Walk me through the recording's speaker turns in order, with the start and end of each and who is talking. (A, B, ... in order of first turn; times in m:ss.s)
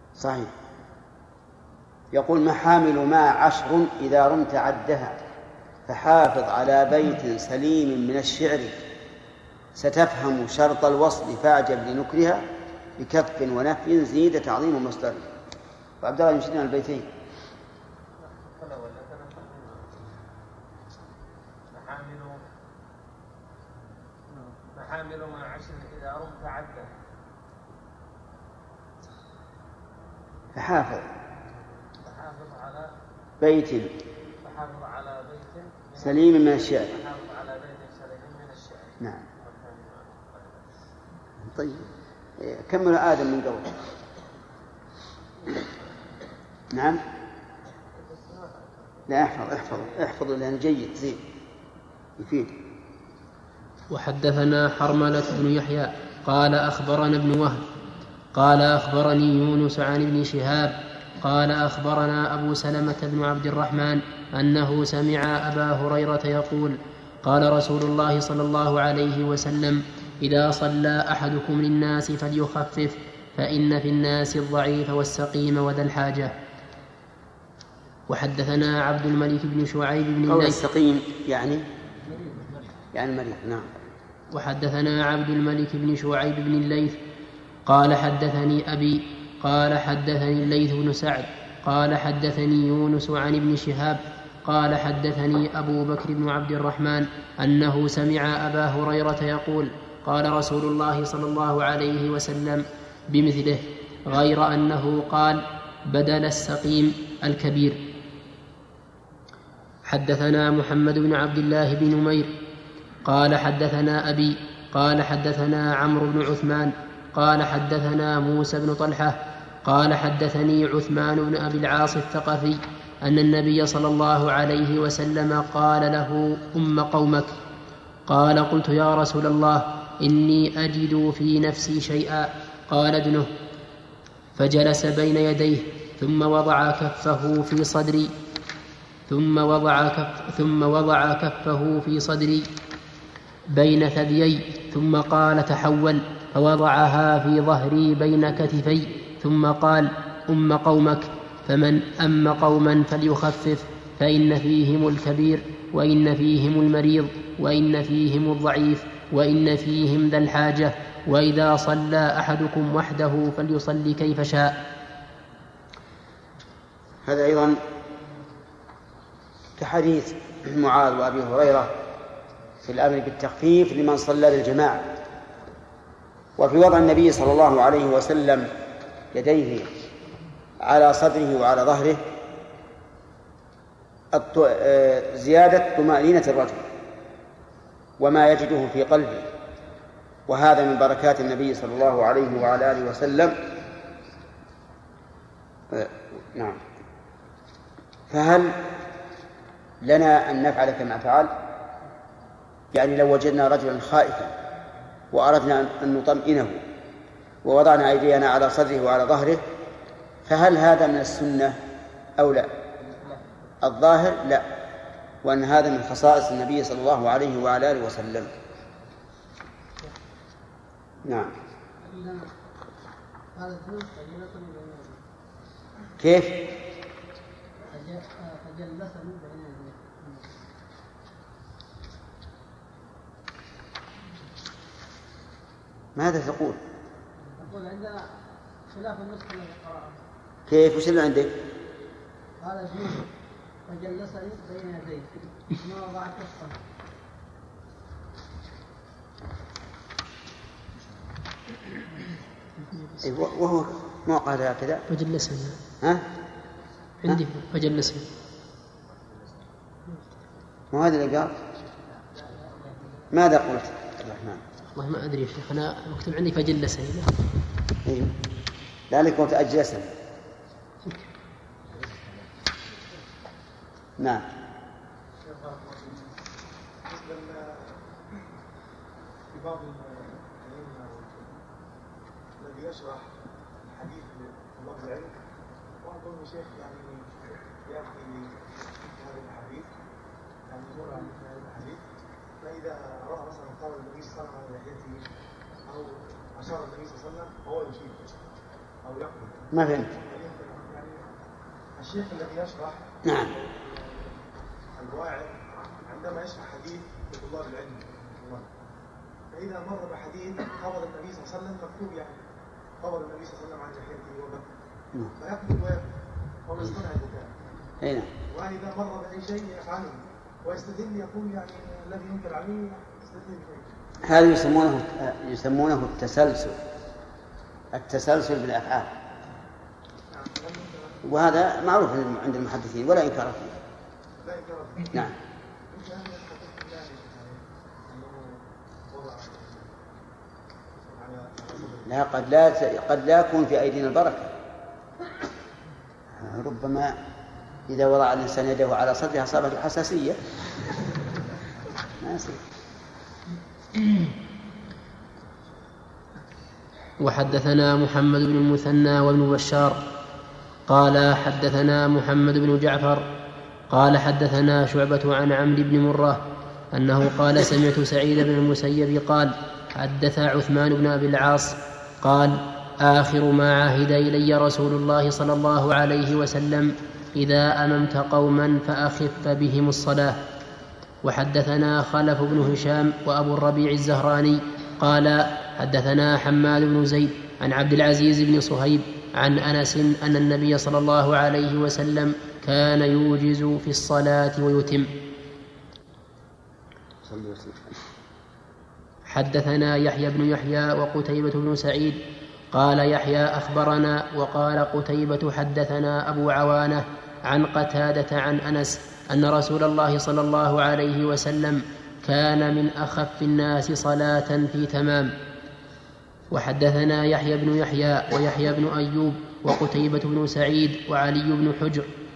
0:00.2-0:00.5 A
0:02.1-0:05.2 A
0:05.9-0:08.8 A
0:09.8-0:12.4 A
0:13.0-0:15.2 A
0:16.0-0:17.1 A
0:18.4-0:20.1 B
0:21.7-0:22.4 B
0:24.7-0:26.9 B
0:30.6-0:31.1 A
0:32.0-0:32.9 B
0:33.4-0:33.9 A
0:34.4-0:40.7 B
0:36.0-0:36.9 A
0:39.0-0:39.2 A
0:41.4-0:43.8 A
0:46.7-0:47.0 A
0:49.1-0:51.2 A
0:52.2-0:52.5 A
0:53.9-0:57.6 C
0:58.3-1:16.3 C
1:18.1-1:20.6 C
1:20.3-1:21.6 A
1:22.0-1:22.5 D
1:22.9-1:23.7 A
1:24.3-1:27.0 C
1:27.6-1:47.8 C
1:49.8-1:52.3 C
1:53.0-2:07.3 C
2:08.1-2:13.3 C
2:14.4-2:18.1 C
2:19.1-2:22.5 C
2:23.5-2:44.6 C
2:47.0-2:47.6 A
2:49.6-2:51.7 A
2:52.6-2:54.9 A
2:56.4-2:58.5 A
2:59.1-2:59.7 A
3:00.6-3:02.0 A
3:04.1-3:06.6 A
3:08.0-3:09.3 A
3:10.3-3:13.4 A
3:15.7-3:16.6 A
3:18.1-3:18.6 A
3:19.8-3:21.3 A
3:22.7-3:24.3 A
3:25.1-3:26.6 A
3:27.4-3:29.4 A
3:30.2-3:31.6 A
3:32.2-3:32.5 A
3:33.0-3:33.2 D
3:33.6-3:34.4 A
3:35.2-3:38.3 A
3:41.0-3:41.3 A
3:41.8-3:42.3 D
3:43.3-3:45.0 D
3:46.0-3:46.4 A
3:47.6-3:50.3 D
3:56.0-3:56.6 A
3:57.2-4:00.0 D
4:00.5-4:01.3 A
4:02.4-4:03.1 D
4:03.7-4:06.6 D
4:13.0-4:14.8 A
4:14.9-4:15.6 C
4:17.0-4:18.1 C
4:20.7-4:21.3 A
4:23.1-4:24.4 A
4:24.7-4:27.1 C
4:27.8-4:28.2 A
4:28.9-4:29.9 A
4:34.0-4:34.2 A
4:35.2-4:36.0 E
4:36.8-4:37.8 E
4:39.3-4:41.4 E
4:42.4-4:45.2 E
4:45.8-4:49.7 E
4:50.5-4:51.8 E
4:52.4-4:55.1 E
4:55.6-4:58.1 E
4:58.8-5:01.1 E
4:59.5-4:59.9 A
5:01.8-5:08.5 E
5:03.0-5:03.3 A
5:09.3-5:12.2 E
5:12.8-5:14.5 E
5:15.1-5:15.9 E
5:16.4-5:17.3 E
5:17.8-5:18.1 A
5:18.3-5:23.8 E
5:24.0-5:26.6 A
5:27.7-5:28.9 A
5:30.1-5:31.2 E
5:31.0-5:33.6 A
5:34.2-5:35.1 E
5:35.7-5:38.4 E
5:38.9-5:39.7 E
5:40.7-5:42.0 E
5:41.8-5:44.3 A
5:46.1-5:47.0 A
5:47.7-5:50.2 A
5:52.0-5:52.4 A
5:57.0-5:59.8 C
6:00.7-6:03.0 C
6:03.7-6:06.2 C
6:06.7-6:20.2 C
6:21.0-6:34.9 C
6:37.0-6:37.6 A
6:39.1-6:42.0 C
6:42.5-6:55.1 C
6:56.3-7:01.9 C